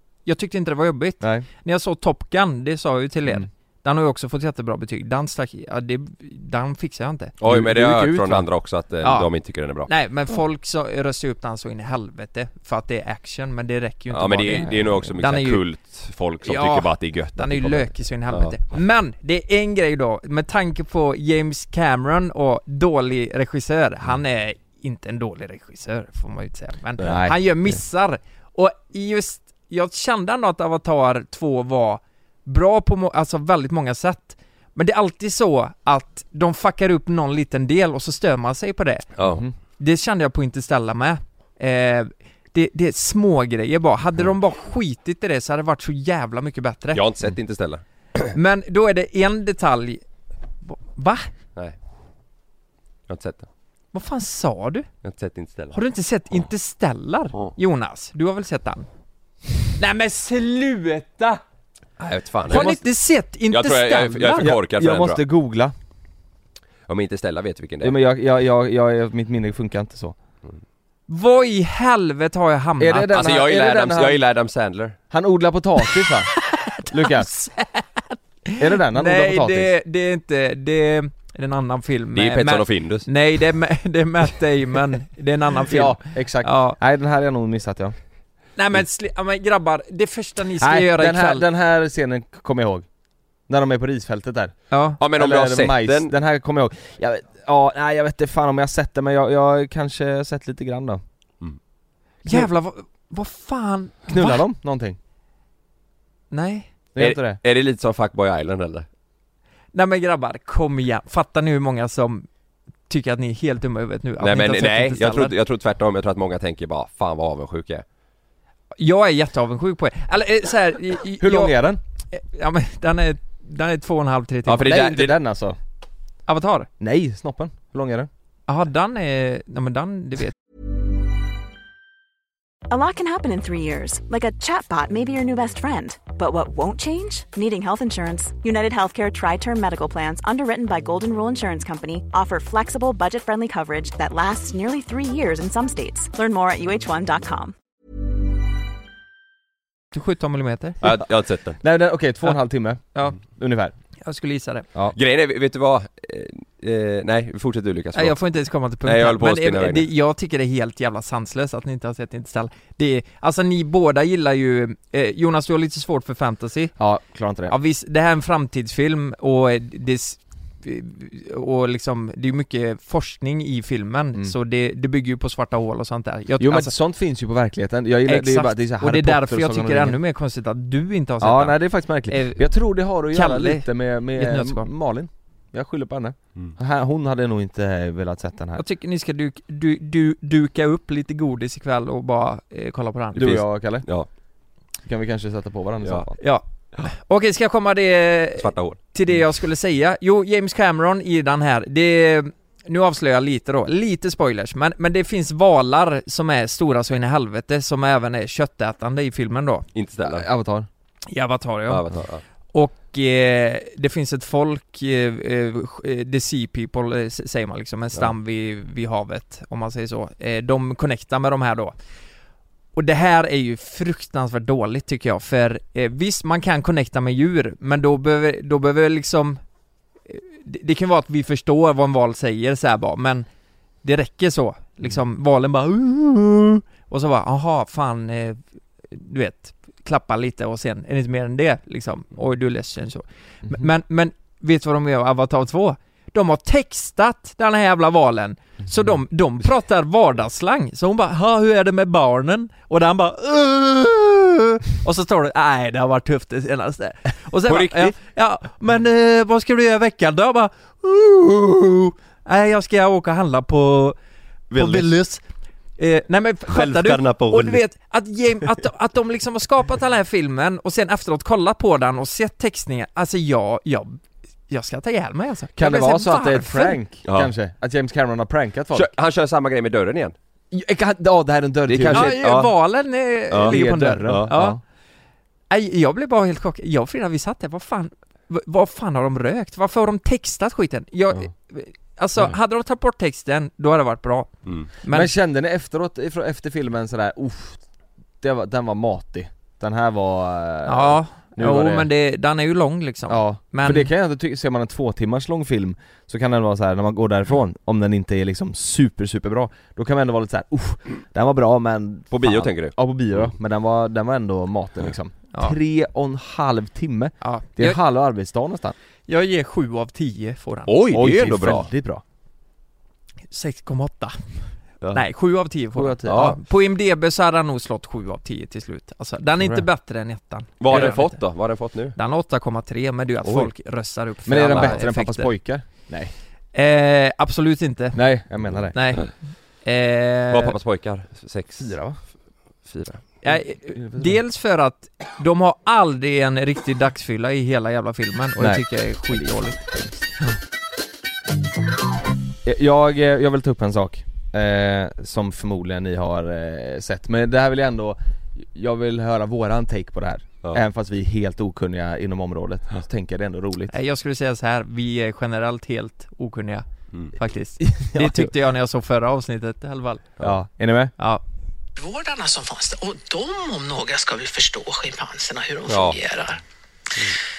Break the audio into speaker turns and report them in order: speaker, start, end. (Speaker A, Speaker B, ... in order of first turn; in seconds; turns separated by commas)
Speaker A: 0.2-7.3, Speaker B: 1.2-1.5, Speaker C: 7.4-9.9, Speaker B: 7.4-8.5, Speaker A: 9.0-9.3, Speaker A: 9.8-15.6, Speaker C: 14.1-18.6, Speaker B: 14.5-15.1, Speaker A: 16.4-39.1, Speaker B: 27.0-27.8, Speaker C: 39.2-39.4, Speaker B: 39.2-39.5, Speaker A: 39.8-47.0, Speaker C: 46.9-47.8, Speaker A: 48.3-50.0, Speaker A: 50.6-51.3, Speaker C: 53.1-53.5, Speaker A: 53.9-54.9, Speaker C: 55.0-55.8, Speaker A: 55.7-58.9, Speaker A: 59.8-61.4, Speaker C: 62.0-62.7, Speaker A: 62.5-64.5, Speaker B: 62.5-62.8, Speaker C: 63.5-65.2, Speaker B: 64.4-65.7, Speaker C: 66.9-68.0, Speaker B: 67.8-70.2, Speaker A: 71.1-73.2, Speaker B: 72.8-74.2, Speaker C: 73.1-75.0, Speaker B: 75.1-77.3, Speaker A: 76.5-86.8, Speaker B: 78.6-79.7, Speaker C: 82.1-83.1, Speaker B: 85.7-88.0, Speaker A: 88.6-91.4, Speaker B: 90.6-92.9, Speaker B: 93.5-101.0, Speaker A: 94.7-95.0, Speaker C: 95.0-96.1, Speaker A: 102.2-104.4, Speaker B: 104.1-105.0, Speaker A: 106.3-106.7, Speaker B: 107.0-107.4, Speaker C: 107.0-108.9, Speaker A: 109.7-112.3, Speaker A: 112.9-115.3, Speaker C: 114.2-117.8, Speaker A: 118.8-121.6, Speaker B: 121.2-121.8, Speaker A: 122.1-124.8, Speaker C: 124.5-125.1, Speaker B: 124.5-125.6, Speaker A: 126.3-126.7, Speaker B: 126.8-128.1, Speaker A: 128.5-130.3, Speaker D: 132.7-147.6, Speaker A: 149.9-150.8, Speaker C: 150.8-151.6, Speaker B: 151.6-153.7, Speaker A: 154.0-154.7, Speaker C: 154.9-158.2, Speaker A: 157.9-166.7, Speaker C: 158.8-159.9, Speaker B: 166.8-167.6, Speaker A: 167.5-176.7, Speaker B: 176.4-180.0, Speaker A: 178.1-182.5, Speaker B: 181.2-188.6, Speaker A: 183.1-184.7, Speaker A: 188.6-193.3, Speaker B: 193.1-193.9, Speaker C: 193.2-194.1, Speaker B: 194.8-196.2, Speaker A: 196.2-209.7, Speaker C: 198.4-198.8, Speaker C: 209.8-210.2, Speaker B: 210.1-210.7, Speaker A: 211.1-211.8, Speaker C: 211.7-212.2, Speaker A: 212.5-221.8, Speaker A: 222.8-229.4, Speaker A: 230.1-233.3, Speaker A: 233.8-264.0, Speaker C: 257.5-257.9, Speaker C: 264.5-264.9, Speaker A: 264.6-265.2, Speaker A: 265.8-276.8, Speaker C: 266.5-267.6, Speaker B: 275.6-278.9, Speaker C: 277.1-277.3, Speaker C: 278.7-280.1, Speaker B: 280.5-282.2, Speaker C: 281.7-282.5, Speaker A: 281.9-284.6, Speaker C: 283.3-284.3, Speaker B: 283.4-284.6, Speaker A: 285.5-294.3, Speaker A: 294.8-295.1, Speaker B: 294.9-297.6, Speaker B: 298.2-301.9, Speaker A: 300.6-303.9, Speaker B: 303.1-318.8, Speaker C: 312.1-313.3, Speaker A: 317.2-317.8, Speaker A: 319.1-320.7, Speaker C: 320.7-321.7, Speaker B: 320.9-322.0, Speaker A: 323.3-331.2, Speaker B: 325.8-326.4, Speaker C: 326.1-326.4, Speaker B: 329.4-329.6, Speaker C: 330.6-332.0, Speaker B: 330.7-330.9, Speaker A: 331.9-335.3, Speaker B: 333.2-333.5, Speaker B: 334.2-336.1, Speaker C: 334.5-334.8, Speaker A: 336.5-338.0, Speaker B: 337.9-339.0, Speaker A: 338.7-339.1, Speaker A: 339.6-340.6, Speaker C: 340.3-341.8, Speaker B: 341.6-342.0, Speaker C: 342.7-343.0, Speaker A: 343.2-349.6, Speaker B: 343.3-344.2, Speaker B: 348.4-350.1, Speaker B: 352.4-363.8, Speaker A: 363.7-370.1, Speaker B: 367.6-368.3, Speaker B: 370.2-370.9, Speaker E: 371.8-376.4, Speaker C: 375.7-376.0